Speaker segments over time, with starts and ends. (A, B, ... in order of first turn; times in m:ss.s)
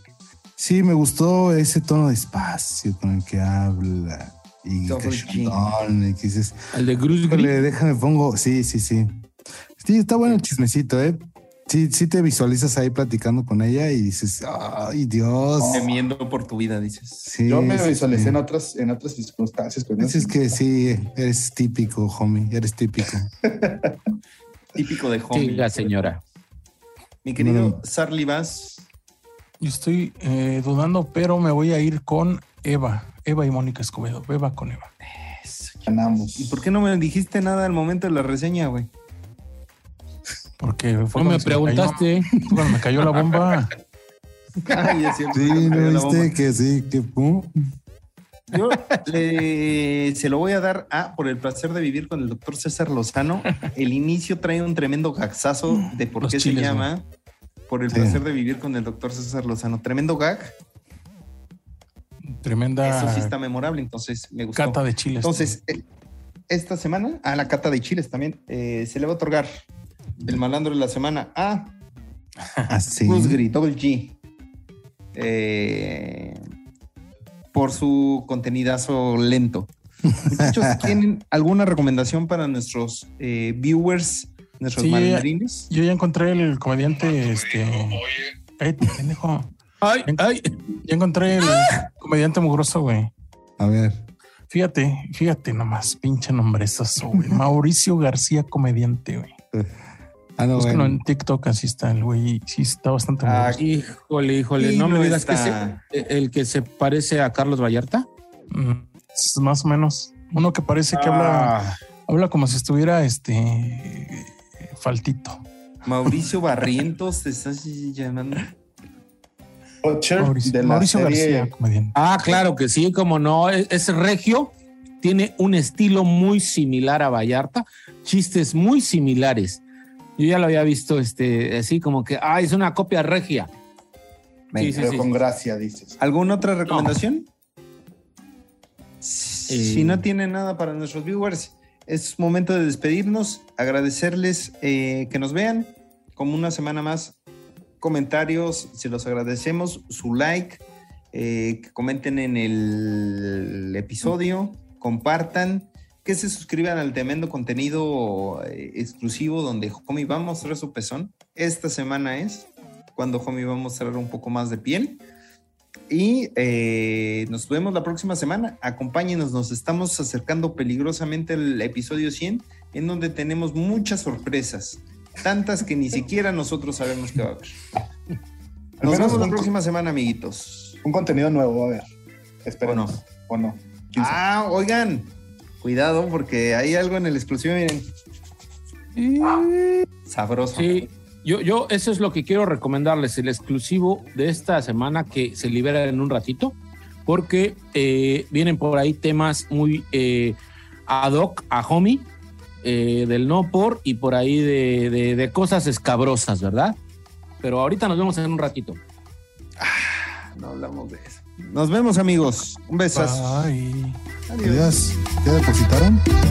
0:00.6-0:06.6 A
0:04.9-0:05.6 B
0:06.7-0:07.5 C
0:07.2-0:15.8 A
0:15.6-0:15.9 D
0:15.7-0:17.3 B
0:17.2-0:18.4 A
0:17.5-0:20.3 D
0:20.0-0:23.3 A
0:23.4-0:24.0 D
0:24.8-0:25.9 B
0:25.3-0:26.2 C
0:27.2-0:28.8 B
0:27.4-0:27.8 A
0:29.6-0:34.9 E
0:35.2-0:35.8 B
0:35.8-0:36.6 D
0:36.4-0:38.9 B
0:40.6-0:43.7 E
0:41.2-0:42.3 C
0:44.7-0:46.3 B
0:45.3-0:47.5 A
0:48.5-0:57.0 B
0:56.2-0:56.9 E
0:57.7-1:00.5 B
0:57.9-0:58.2 A
1:02.3-1:03.3 E
1:02.8-1:05.8 B
1:04.6-1:05.5 E
1:06.5-1:09.6 B
1:10.2-1:11.7 B
1:12.4-1:12.7 E
1:12.7-1:13.4 A
1:13.0-1:14.2 B
1:15.1-1:16.4 B
1:17.5-1:19.7 B
1:20.1-1:21.0 A
1:20.2-1:25.7 B
1:24.8-1:29.5 E
1:29.8-1:30.4 C
1:30.1-1:33.1 E
1:33.6-1:34.0 A
1:34.5-1:39.3 E
1:39.5-1:41.0 A
1:40.6-1:43.6 E
1:43.2-1:43.6 B
1:43.6-1:48.0 C
1:44.6-1:45.8 B
1:48.5-1:55.4 E
1:50.9-1:51.6 B
1:55.8-1:58.5 B
1:59.8-2:01.5 D
2:00.2-2:01.9 E
2:01.9-2:09.6 C
2:10.2-2:13.5 C
2:14.5-2:14.9 B
2:14.5-2:15.1 C
2:14.7-2:16.0 D
2:16.0-2:17.3 B
2:16.7-2:16.9 C
2:19.0-2:27.2 B
2:19.5-2:20.0 C
2:27.8-2:45.0 B
2:45.9-2:57.6 B
2:58.8-2:59.5 D
2:58.8-3:00.8 B
3:00.8-3:01.9 D
3:02.4-3:04.2 D
3:02.6-3:03.0 B
3:04.0-3:07.9 B
3:09.0-3:09.8 E
3:10.1-3:10.8 B
3:10.5-3:20.4 C
3:20.9-3:22.1 C
3:22.6-3:26.8 C
3:27.4-3:28.8 C
3:29.6-3:33.5 B
3:32.9-3:34.0 E
3:34.3-3:34.8 B
3:34.4-3:36.0 A